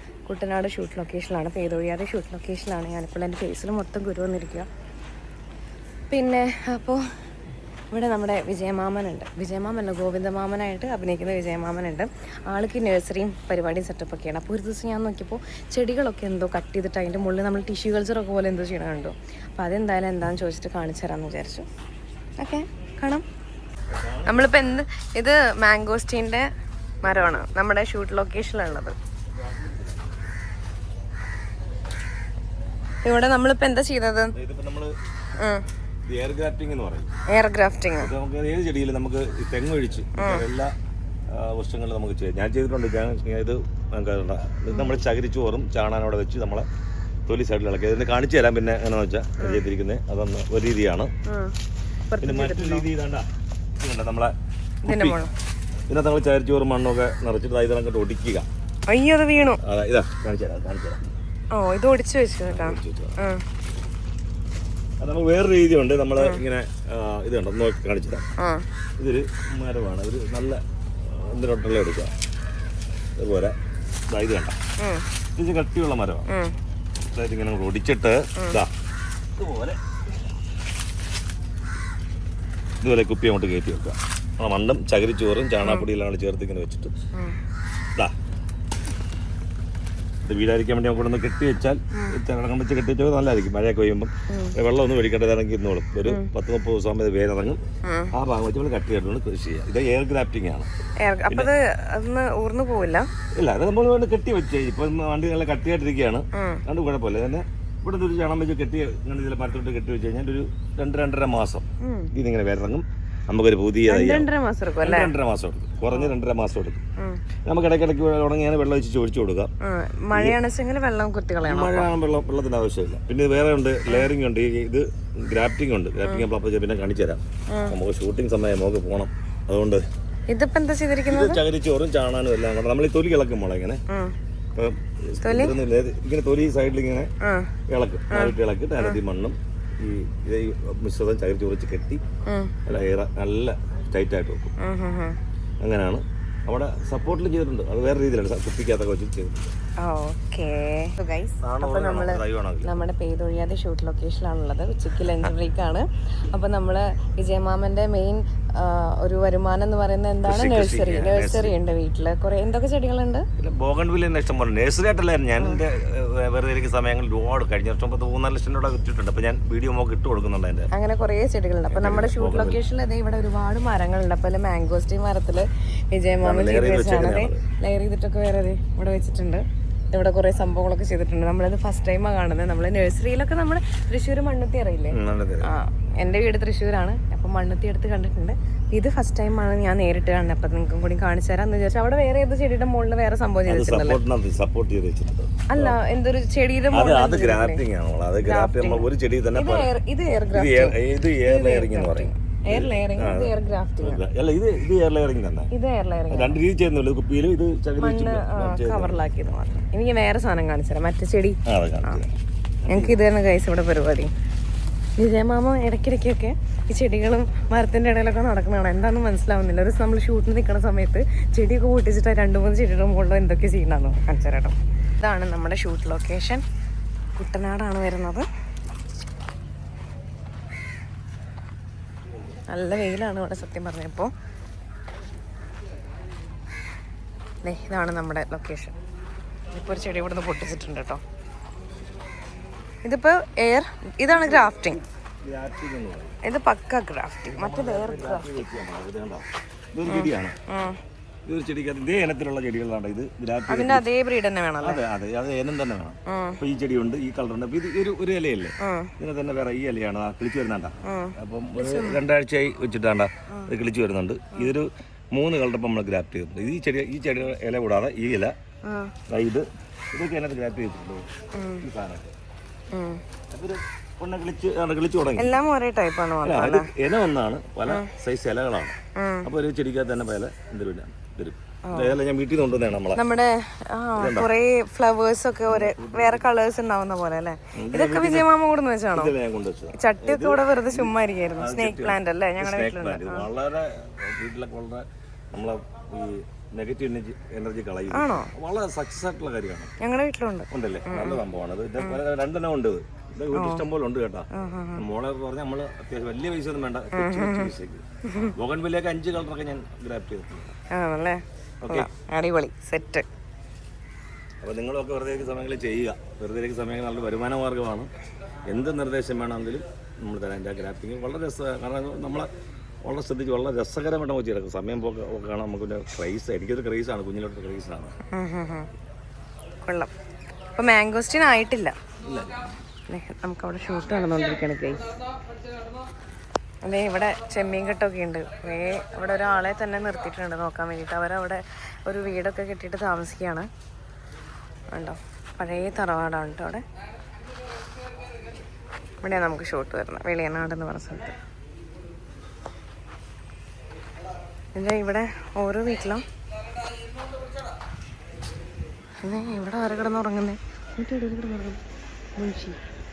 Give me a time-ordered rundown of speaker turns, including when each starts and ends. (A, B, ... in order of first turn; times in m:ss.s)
0:00.3-0:04.7 A
0:06.1-0:07.0 A
0:07.9-0:21.7 A
0:22.4-0:23.2 A
0:23.9-0:24.7 B
0:24.2-0:26.5 A
0:27.0-0:28.9 A
0:27.0-0:27.5 B
0:29.5-0:29.8 B
0:33.0-0:34.3 A
0:34.3-0:34.9 B
0:35.4-0:35.6 A
0:36.0-0:37.1 B
0:37.3-0:38.1 A
0:38.0-0:40.7 B
0:40.2-0:40.4 A
0:41.3-0:46.7 B
0:47.3-0:51.1 B
0:51.3-0:51.5 A
0:52.1-0:52.9 A
0:52.2-0:53.3 B
0:53.8-0:54.3 B
0:54.8-0:55.2 B
0:54.8-0:55.3 A
0:55.9-0:58.5 B
0:58.9-0:59.6 A
0:59.6-1:01.0 B
1:01.5-1:03.4 A
1:02.5-1:03.2 B
1:05.0-1:08.3 B
1:08.4-1:08.6 A
1:09.0-1:12.1 B
1:13.2-1:13.6 B
1:14.1-1:14.6 B
1:14.8-1:15.0 A
1:15.4-1:16.2 B
1:16.3-1:16.5 A
1:17.1-1:18.7 B
1:19.4-1:19.8 B
1:22.8-1:26.9 B
1:25.6-1:25.9 A
1:30.2-1:37.6 B
1:34.3-1:34.5 A
1:36.0-1:36.3 A
1:37.8-1:38.1 A
1:38.1-1:40.7 B
1:41.0-1:43.1 A
1:43.4-1:54.3 B
1:46.3-1:46.6 A
1:51.8-1:52.1 A
1:53.9-1:55.1 A
1:54.8-1:56.8 B
1:55.9-1:56.1 A
1:57.4-1:59.5 B
1:59.6-2:01.9 A
2:00.1-2:00.4 B
2:01.4-2:09.8 B
2:07.5-2:07.8 A
2:10.3-2:11.4 A
2:11.1-2:13.8 B
2:13.9-2:14.1 A
2:14.5-2:17.1 B
2:15.2-2:15.5 A
2:17.2-2:17.5 A
2:17.7-2:22.0 B
2:18.1-2:19.0 A
2:22.3-2:22.5 A
2:22.6-2:24.5 B
2:24.6-2:25.2 A
2:25.6-2:29.5 B
2:29.8-2:43.3 A
2:31.4-2:32.7 B
2:40.2-2:41.5 B
2:43.4-2:50.7 B
2:50.7-3:14.0 A
2:51.7-2:52.6 B
2:56.2-2:57.4 B
3:04.9-3:05.5 B
3:13.5-3:15.8 B
3:15.5-3:17.6 A
3:16.7-3:19.7 B
3:18.2-3:24.0 A
3:20.3-3:25.5 B
3:25.5-3:26.4 A
3:26.1-3:29.0 B
3:27.8-3:32.0 A
3:31.4-3:33.0 B
3:32.7-3:34.1 A
3:35.0-3:46.4 A
3:47.2-3:48.2 A
3:52.5-3:54.1 A
3:57.4-3:58.8 A
3:59.5-4:01.0 A
4:02.8-4:04.8 A
4:04.1-4:06.2 B
4:06.2-4:08.5 A
4:07.3-4:10.4 B
4:09.9-4:10.8 A
4:11.2-4:13.8 B
4:13.5-4:14.8 A
4:14.6-4:28.3 B
4:16.0-4:16.4 A
4:18.6-4:18.9 A
4:20.8-4:22.0 A
4:28.6-4:28.9 A
4:29.1-4:31.1 B
4:31.3-4:31.6 A
4:31.6-4:32.1 B
4:32.7-4:33.0 A
4:33.3-4:35.4 B
4:35.2-4:36.7 A
4:36.2-4:43.0 B
4:39.0-4:39.3 A
4:41.6-4:42.0 A
4:42.9-4:49.1 A
4:44.0-4:44.3 B
4:45.5-4:46.2 B
4:47.5-4:48.3 B
4:48.9-4:59.7 B
4:49.7-4:53.3 A
4:57.9-4:58.3 A
4:59.8-5:01.2 A
5:00.5-5:10.5 B
5:03.3-5:03.6 A
5:04.3-5:04.8 A
5:06.9-5:07.5 A
5:08.1-5:08.3 A
5:10.7-5:13.0 A
5:11.6-5:11.9 B
5:14.4-5:17.9 B
5:18.5-5:22.3 B
5:22.8-5:27.9 B
5:28.1-5:28.7 A
5:29.6-5:29.9 A
5:30.6-5:31.8 A
5:32.0-5:32.4 B
5:32.9-5:34.9 A
5:36.6-5:43.5 A
5:44.7-5:46.6 A
5:49.0-5:51.1 A
5:54.5-5:56.0 A
5:59.0-6:01.6 A
6:02.2-6:02.6 A